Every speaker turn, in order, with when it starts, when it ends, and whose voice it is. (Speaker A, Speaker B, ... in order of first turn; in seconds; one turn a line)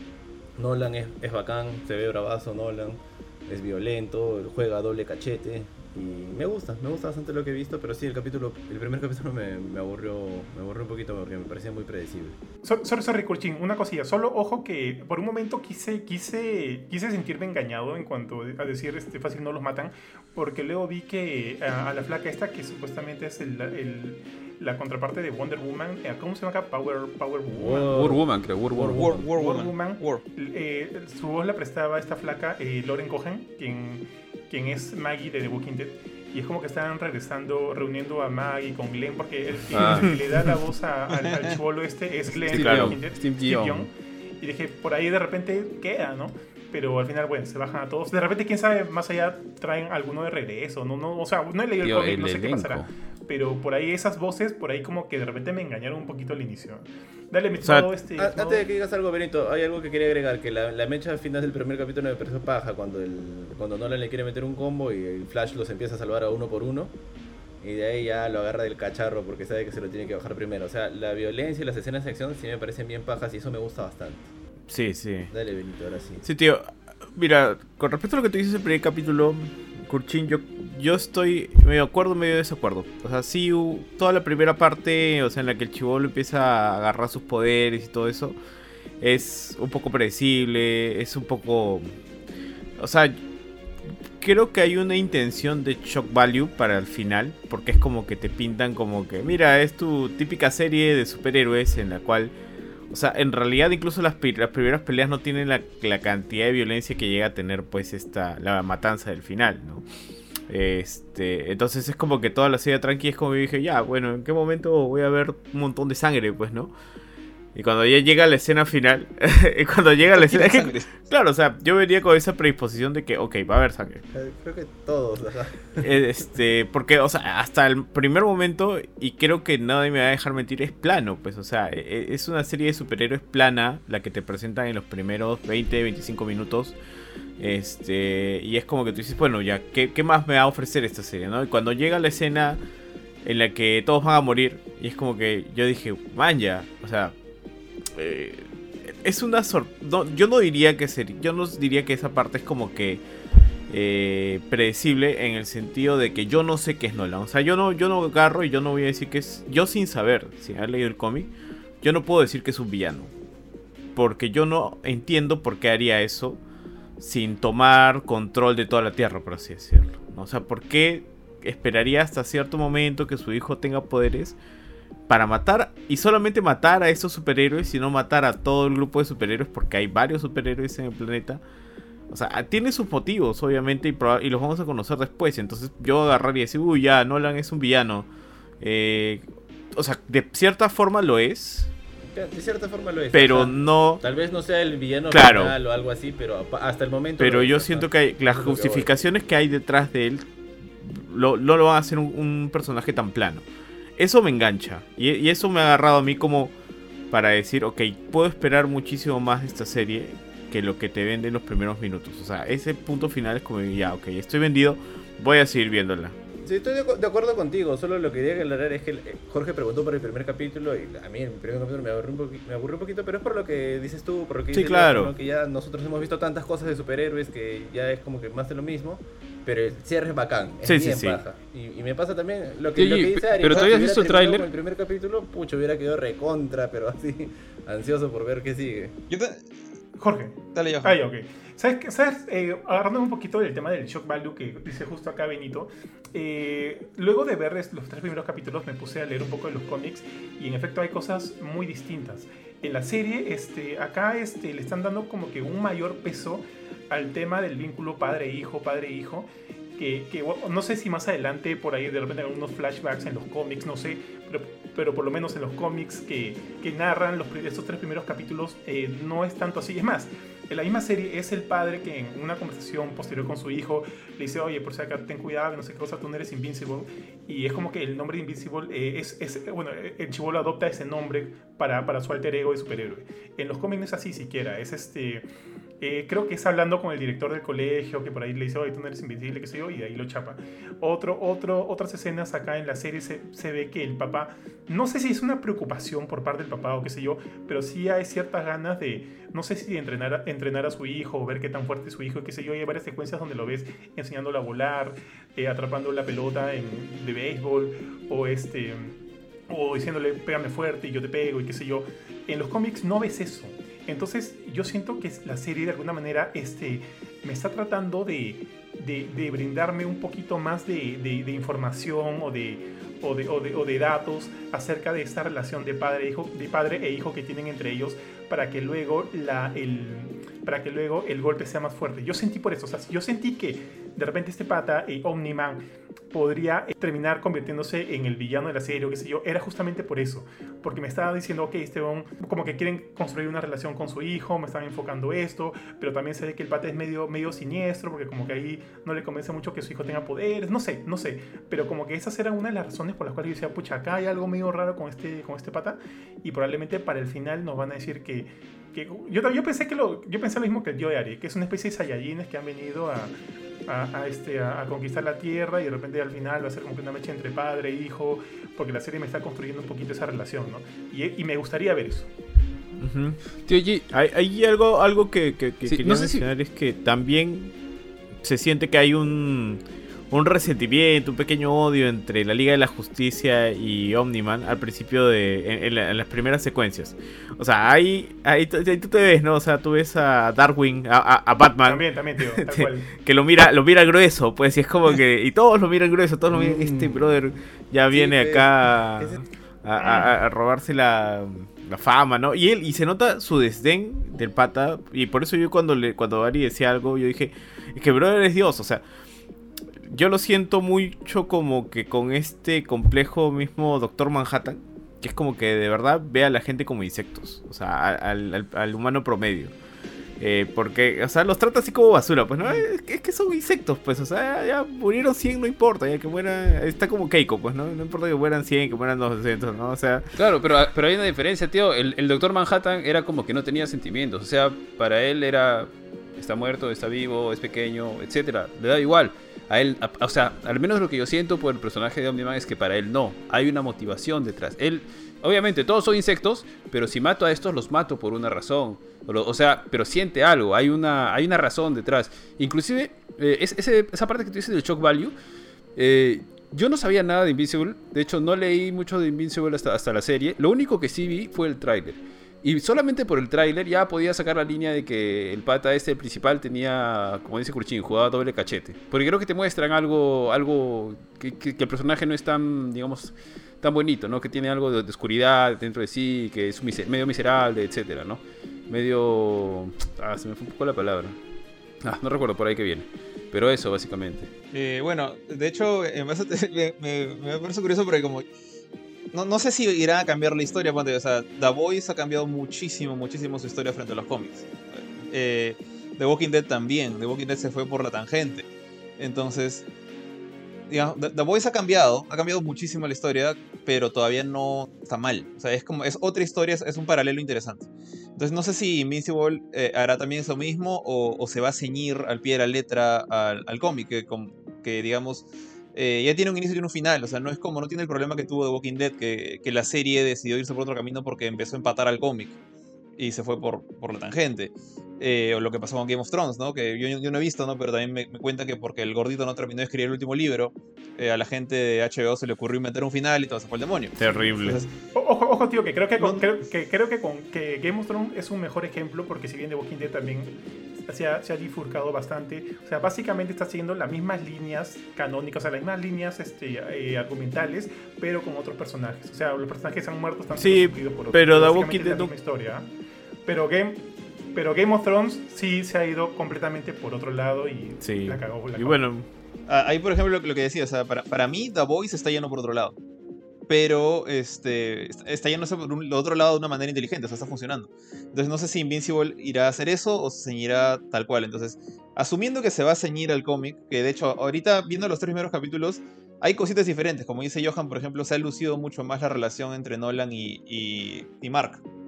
Speaker A: 0.6-12.4
Speaker B: 12.6-28.0
Speaker A: 27.5-29.3
Speaker C: 27.9-29.1
Speaker D: 28.9-30.2
Speaker B: 29.3-58.7
Speaker C: 39.7-40.1
Speaker D: 41.1-41.5
Speaker E: 42.5-43.0
Speaker C: 42.5-43.9
Speaker C: 51.8-52.9
Speaker A: 58.2-66.9
Speaker A: 67.6-74.3
Speaker E: 74.7-75.3
Speaker A: 75.3-76.2
Speaker E: 76.2-88.4
Speaker E: 89.0-91.9
Speaker E: 92.8-93.2
Speaker E: 94.2-102.3
Speaker E: 102.9-109.8
Speaker E: 110.5-116.7
Speaker E: 117.5-124.0
Speaker D: 120.1-120.9
Speaker A: 124.1-125.9
Speaker E: 125.8-136.8
Speaker E: 137.4-142.6
Speaker E: 143.2-147.2
Speaker E: 147.9-153.0
Speaker E: 153.7-161.3
Speaker E: 161.8-163.1
Speaker E: 163.9-166.4
Speaker E: 167.0-174.4
Speaker E: 175.1-181.4
Speaker E: 182.1-188.1
Speaker E: 188.6-191.7
Speaker A: 192.0-198.9
Speaker E: 193.1-194.0
Speaker E: 195.1-195.6
Speaker E: 197.2-200.2
Speaker E: 200.8-203.5
Speaker E: 204.0-206.5
Speaker E: 207.1-216.2
Speaker A: 216.4-239.0
Speaker E: 224.5-225.1
Speaker E: 230.6-231.2
Speaker C: 232.8-234.4
Speaker D: 233.4-233.7
Speaker D: 239.1-239.4
Speaker B: 240.0-285.3
Speaker D: 240.5-241.0
Speaker B: 285.8-309.0
Speaker B: 309.5-372.1
Speaker E: 372.8-373.2
Speaker C: 373.4-373.9
Speaker E: 373.9-377.5
Speaker C: 375.6-376.2
Speaker E: 378.2-408.9
Speaker B: 391.6-392.9
Speaker A: 396.3-397.2
Speaker A: 397.9-399.2
Speaker B: 399.8-400.1
Speaker E: 409.8-419.5
Speaker E: 420.2-430.1
Speaker C: 430.1-455.1
Speaker C: 455.8-481.2
Speaker C: 481.8-484.3
Speaker D: 484.5-488.3
Speaker D: 489.1-498.4
Speaker D: 499.0-499.6
Speaker D: 500.7-522.4
Speaker D: 523.0-534.7
Speaker E: 534.0-534.6
Speaker B: 534.0-552.7
Speaker D: 536.0-536.2
Speaker E: 550.3-552.1
Speaker B: 553.2-558.8
Speaker E: 557.8-559.1
Speaker D: 559.5-562.7
Speaker D: 563.5-581.6